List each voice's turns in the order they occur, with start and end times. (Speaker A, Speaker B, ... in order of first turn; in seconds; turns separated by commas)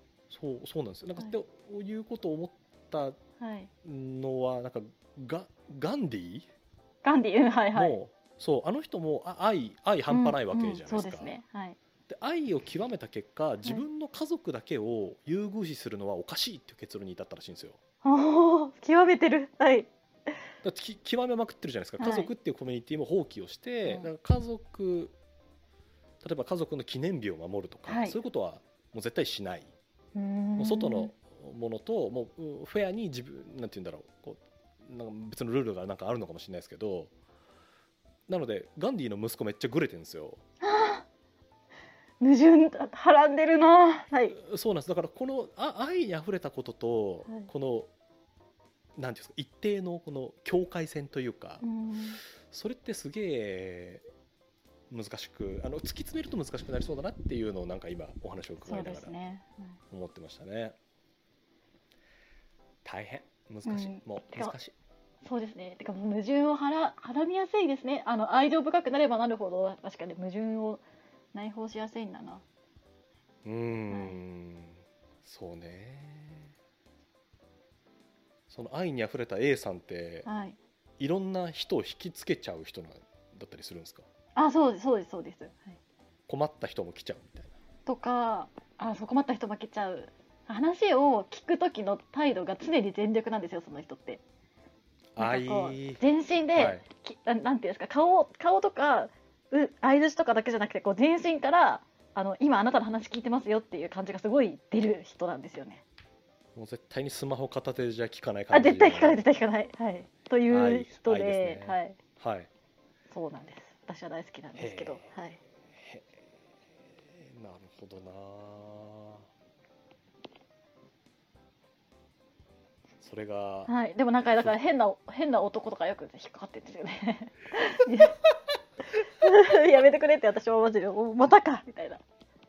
Speaker A: 0.3-3.2, Speaker B: 3.4-3.7, Speaker A: 3.8-6.5, Speaker B: 7.0-8.0, Speaker A: 7.7-11.3, Speaker B: 10.1-11.8, Speaker A: 12.1-17.8, Speaker B: 18.0-19.9, Speaker A: 20.6-25.1, Speaker B: 22.0-22.3, Speaker A: 26.2-29.7, Speaker B: 27.9-28.2, Speaker B: 30.1-31.1, Speaker A: 30.6-37.1, Speaker A: 38.3-40.4, Speaker B: 40.6-41.0, Speaker B: 42.2-44.4, Speaker A: 44.3-47.9, Speaker A: 49.0-51.6, Speaker B: 51.6-52.2, Speaker A: 52.5-54.0, Speaker A: 54.9-59.2, Speaker B: 58.6-59.8, Speaker A: 59.9-60.8, Speaker A: 62.8-64.7, Speaker B: 63.6-64.5, Speaker B: 65.2-70.8, Speaker B: 71.3-72.4, Speaker A: 73.4-76.5, Speaker B: 73.9-74.2, Speaker A: 78.5-80.3, Speaker B: 80.2-80.6, Speaker A: 81.0-84.0, Speaker B: 84.3-85.8, Speaker A: 86.3-87.5, Speaker B: 87.8-94.2, Speaker A: 95.1-96.0, Speaker B: 95.2-105.8, Speaker A: 96.5-96.8, Speaker A: 106.5-109.2, Speaker B: 108.5-112.0, Speaker A: 110.5-112.5, Speaker B: 113.1-115.4, Speaker A: 114.5-115.1, Speaker A: 115.7-116.2, Speaker A: 117.0-119.2, Speaker A: 123.0-123.7, Speaker B: 123.7-128.1, Speaker B: 129.2-132.0